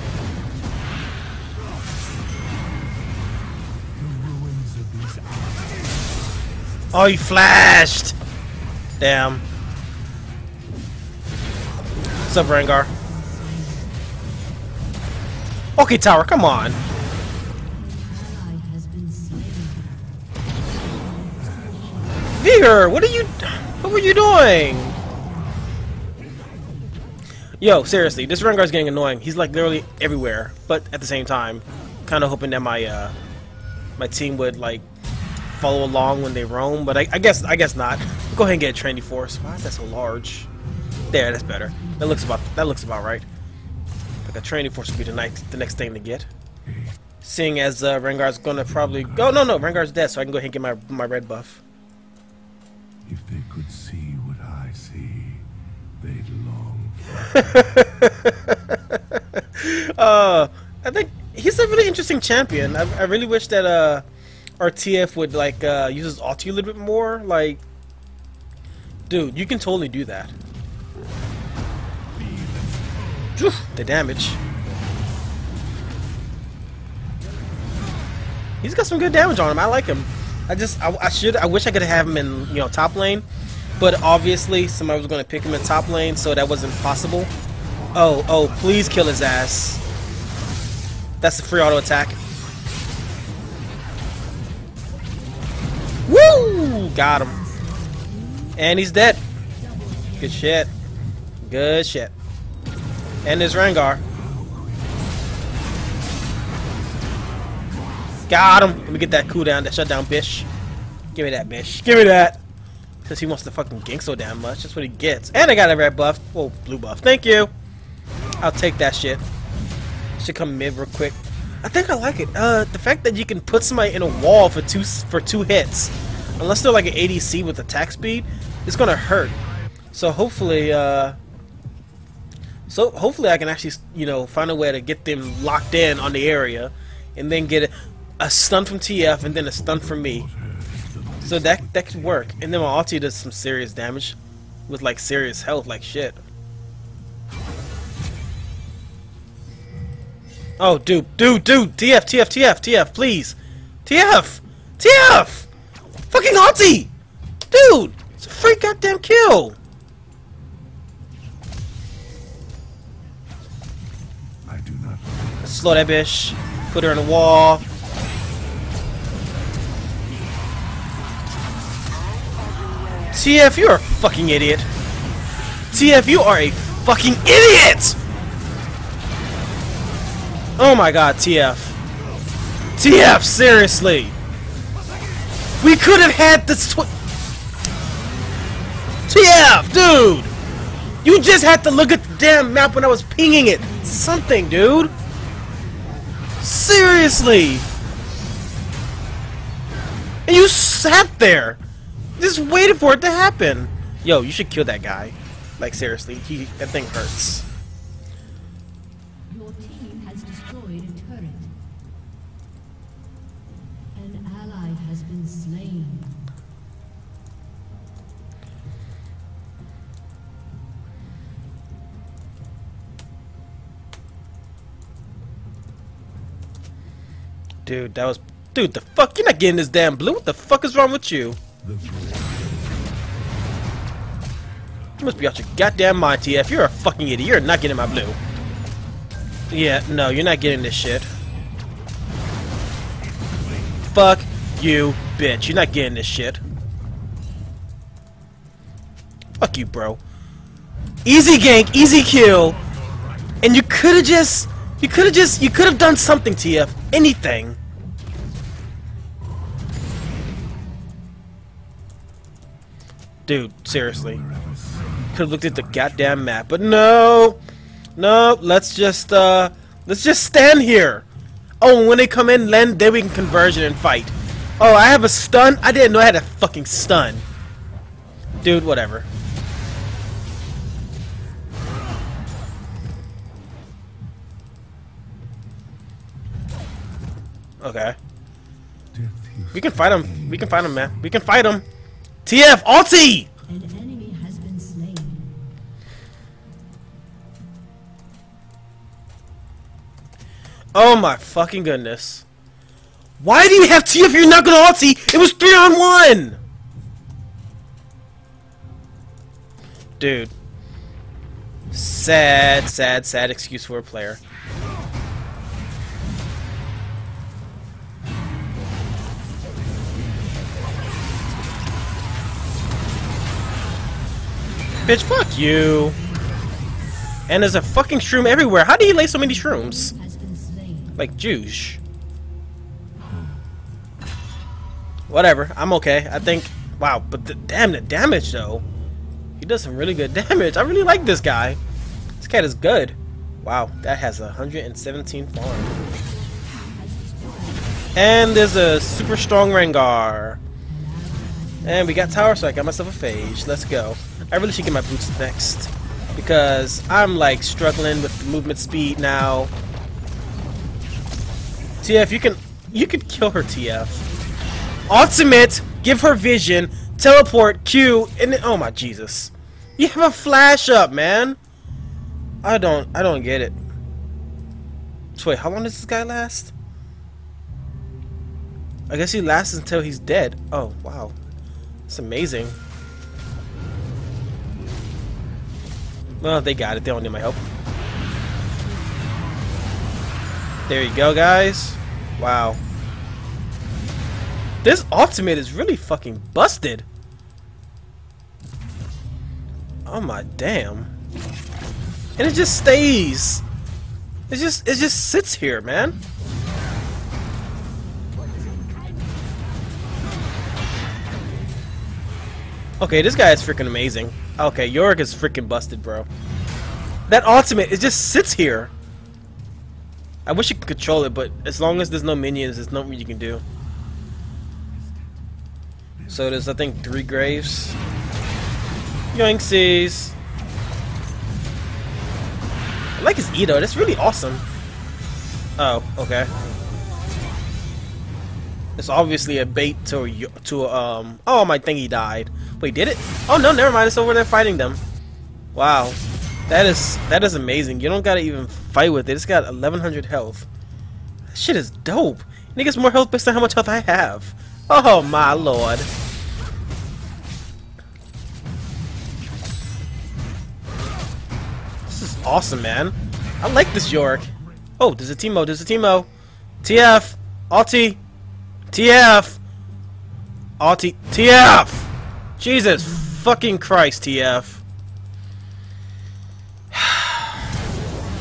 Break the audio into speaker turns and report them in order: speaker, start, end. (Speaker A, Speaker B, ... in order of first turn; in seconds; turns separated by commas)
Speaker A: 3.9-5.9, Speaker B: 6.9-8.1, Speaker B: 9.0-9.4, Speaker B: 12.3-12.9, Speaker C: 12.9-13.9, Speaker B: 15.8-16.8, Speaker C: 17.7-20.2, Speaker C: 20.8-22.1, Speaker A: 21.4-22.2, Speaker B: 22.4-24.9, Speaker C: 25.2-25.5, Speaker B: 27.6-33.1, Speaker B: 34.0-34.8, Speaker B: 35.5-40.5, Speaker B: 41.1-43.2, Speaker C: 41.7-42.2, Speaker B: 44.2-46.3, Speaker A: 46.6-47.0, Speaker B: 47.2-51.6, Speaker A: 48.6-49.8, Speaker A: 53.0-55.5, Speaker A: 56.0-57.7, Speaker B: 57.3-64.0, Speaker B: 64.6-67.6, Speaker B: 69.1-70.3, Speaker A: 72.2-73.3, Speaker B: 73.3-74.4, Speaker B: 78.6-83.2, Speaker B: 83.8-87.3, Speaker B: 87.9-89.8, Speaker B: 91.2-92.2, Speaker B: 96.1-97.4, Speaker C: 97.3-98.5, Speaker B: 98.6-99.2, Speaker C: 99.6-100.6, Speaker B: 100.2-100.7, Speaker B: 101.4-102.1, Speaker B: 103.2-104.0, Speaker A: 104.1-105.1, Speaker B: 108.3-110.5, Speaker B: 111.1-112.4, Speaker B: 113.0-117.5, Speaker B: 118.4-119.2, Speaker B: 120.2-129.3, Speaker B: 129.9-131.2, Speaker B: 132.7-140.3, Speaker A: 139.2-142.6, Speaker B: 141.2-144.2, Speaker B: 144.7-146.2, Speaker B: 150.6-155.5, Speaker B: 156.1-156.9, Speaker B: 157.5-159.6, Speaker A: 164.4-165.7, Speaker B: 165.4-167.6, Speaker B: 173.1-174.7, Speaker B: 175.7-178.0, Speaker B: 180.6-181.8, Speaker B: 182.8-184.1, Speaker B: 185.6-186.9, Speaker B: 189.1-190.3, Speaker B: 191.0-194.9, Speaker B: 196.4-197.7, Speaker B: 200.3-201.6, Speaker B: 202.2-207.4, Speaker C: 209.3-211.6, Speaker C: 213.9-216.2, Speaker B: 227.7-231.4, Speaker A: 231.6-233.0, Speaker B: 235.0-238.2, Speaker B: 239.5-241.1, Speaker B: 243.9-246.4, Speaker B: 249.4-250.0, Speaker B: 251.0-252.6, Speaker B: 253.4-257.6, Speaker B: 263.3-264.2, Speaker A: 263.7-266.3, Speaker B: 265.1-267.4, Speaker B: 268.0-271.0, Speaker B: 271.6-277.2, Speaker B: 278.4-279.1, Speaker B: 287.6-287.9, Speaker A: 288.9-291.2, Speaker B: 289.5-291.6, Speaker B: 292.2-293.3, Speaker C: 293.5-295.4, Speaker B: 300.7-302.2, Speaker B: 303.2-306.4, Speaker B: 310.0-310.3, Speaker B: 311.7-314.2, Speaker B: 324.9-325.9, Speaker B: 327.3-329.9, Speaker C: 329.5-331.0, Speaker B: 330.9-331.8, Speaker A: 333.0-333.5, Speaker B: 335.1-338.6, Speaker B: 339.4-341.6, Speaker B: 342.2-345.7, Speaker C: 346.4-347.9, Speaker B: 347.9-350.4, Speaker C: 350.7-352.4, Speaker B: 351.6-359.5, Speaker B: 361.8-364.0, Speaker B: 364.9-371.4, Speaker B: 372.4-373.6, Speaker B: 375.1-376.5, Speaker B: 378.9-381.1, Speaker B: 381.9-382.6, Speaker B: 386.2-387.4, Speaker B: 390.7-392.6, Speaker B: 394.6-396.8, Speaker B: 399.9-400.9, Speaker B: 402.2-403.4, Speaker B: 404.3-405.9, Speaker C: 408.5-410.1, Speaker B: 412.8-416.1, Speaker B: 417.1-418.7, Speaker B: 420.2-423.4, Speaker A: 426.0-426.4, Speaker B: 426.1-427.8, Speaker B: 429.1-430.1, Speaker B: 433.0-434.4, Speaker B: 435.6-436.3, Speaker B: 438.8-444.8, Speaker B: 445.5-450.5, Speaker B: 451.3-455.9, Speaker B: 461.9-466.1, Speaker B: 466.6-468.0, Speaker B: 468.7-469.4, Speaker B: 470.6-474.6, Speaker B: 476.7-477.4